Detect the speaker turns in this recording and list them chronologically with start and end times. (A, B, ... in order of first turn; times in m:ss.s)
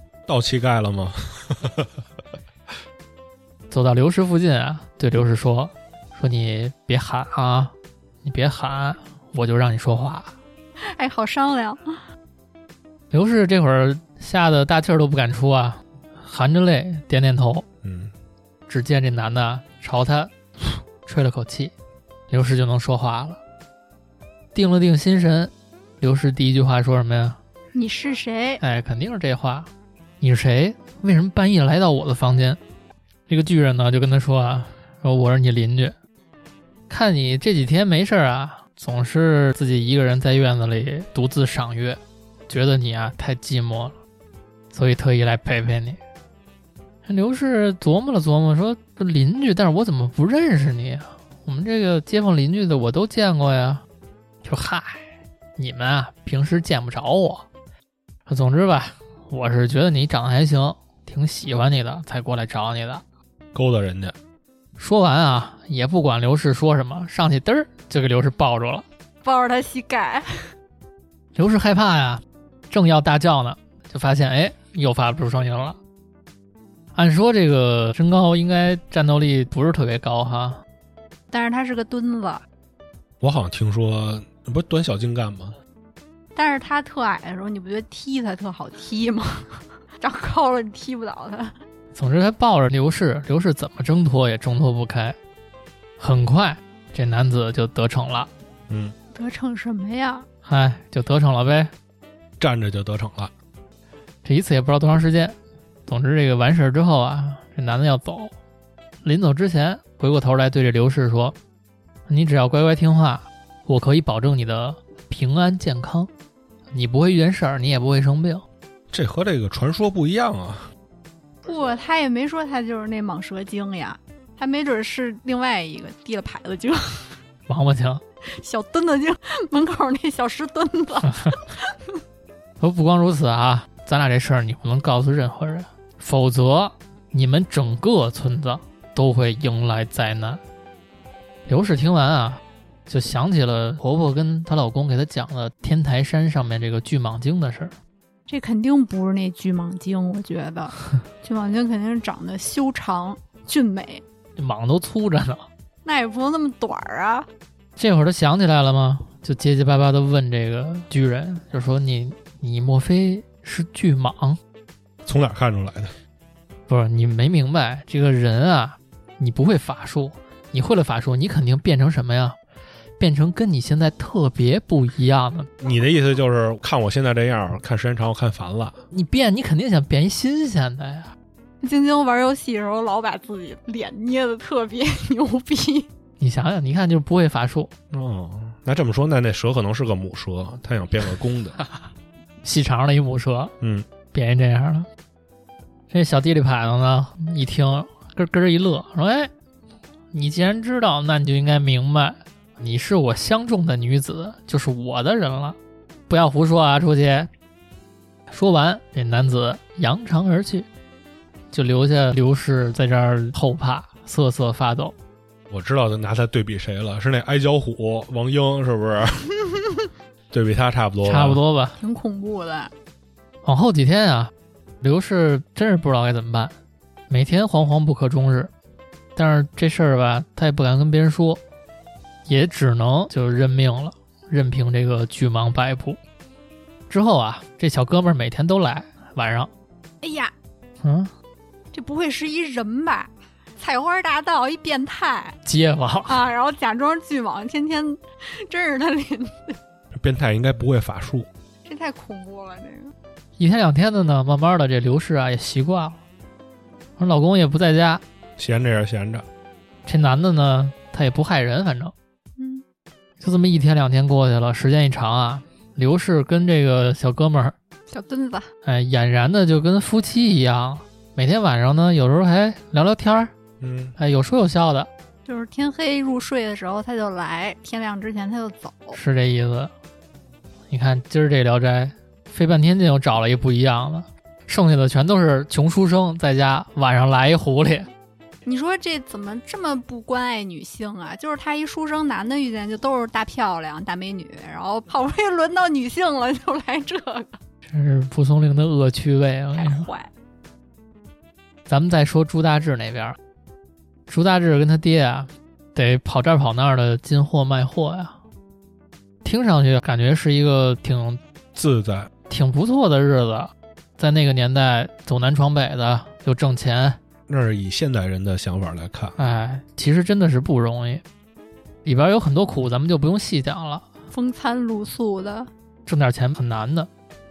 0:00.3-0:02.0 A
0:03.7-0:07.7 B
0:08.2-0:10.4 B
0:10.8-0:11.8 C
0:13.1-0:17.7 B
0:17.8-0:18.1 A
0:18.7-0:21.7 B
0:22.3-0:23.4 B
0:24.5-0:27.4 B
0:27.7-0:28.6 C
0:28.6-0:29.7 B
0:30.2-0:32.6 B
0:33.3-0:36.0 B
0:36.9-0:44.0 B
0:44.7-0:46.0 B
0:47.1-0:53.8 B
0:54.4-0:55.0 B
0:55.6-0:57.5 B
0:58.3-1:03.0 B
1:03.5-1:04.2 A
1:04.8-1:08.8 B
1:09.2-1:10.5 C
1:11.4-1:15.8 B
1:17.0-1:20.6 B
1:21.3-1:22.4 C
1:23.2-1:25.6 A
1:26.4-1:31.6 C
1:31.9-1:35.2 B
1:36.0-1:38.3 B
1:38.7-1:39.0 A
1:39.1-1:40.2 C
1:40.5-1:41.7 B
1:42.4-1:43.3 A
1:44.2-1:45.4 B
1:45.9-1:48.3 B
1:49.0-1:51.4 B
1:52.1-1:56.1 B
1:56.7-1:58.4 B
1:58.9-2:00.7 A
2:01.4-2:07.2 C
2:07.5-2:08.0 B
2:08.3-2:12.0 C
2:12.6-2:20.4 B
2:21.5-2:27.7 B
2:28.3-2:34.0 C
2:34.4-2:35.5 B
2:35.8-2:37.3 C
2:37.8-2:44.4 B
2:45.0-2:45.9 A
2:46.7-2:52.4 B
2:53.0-2:55.5 B
2:55.6-2:58.8 A
2:58.9-3:01.1 B
3:01.6-3:05.9 C
3:06.2-3:07.7 B
3:07.9-3:11.6 A
3:12.4-3:13.5 B
3:13.6-3:13.9 A
3:14.1-3:14.9 B
3:15.9-3:19.3 B
3:20.1-3:25.6 B
3:26.1-3:27.3 B
3:28.3-3:30.7 B
3:31.5-3:35.0 B
3:35.5-3:39.2 A
3:40.3-3:41.4 A
3:41.0-3:41.8 B
3:41.8-3:42.7 C
3:43.4-3:46.6 B
3:47.1-3:48.5 B
3:49.2-3:51.4 B
3:52.2-3:56.0 B
3:56.9-3:59.5 B
4:00.0-4:00.3 C
4:00.8-4:01.1 B
4:01.7-4:05.4 C
4:05.4-4:06.2 B
4:06.1-4:09.6 C
4:09.9-4:11.3 A
4:11.6-4:12.9 C
4:13.4-4:16.0 B
4:17.0-4:18.0 B
4:18.4-4:19.2 A
4:19.9-4:21.9 B
4:22.4-4:22.6 C
4:23.2-4:27.5 B
4:27.9-4:28.5 C
4:28.6-4:33.3 B
4:33.6-4:34.0 A
4:34.0-4:34.9 B
4:35.2-4:39.0 C
4:38.9-4:39.7 B
4:40.7-4:47.9 B
4:48.4-4:57.4 C
4:57.7-4:59.9 B
4:59.5-5:00.1 C
5:01.7-5:03.2 B
5:04.1-5:08.2 B
5:09.2-5:11.2 B
5:11.5-5:12.1 A
5:12.3-5:17.0 B
5:17.3-5:19.2 A
5:19.2-5:21.0 B
5:21.8-5:23.9 B
5:24.1-5:25.5 C
5:25.9-5:26.9 B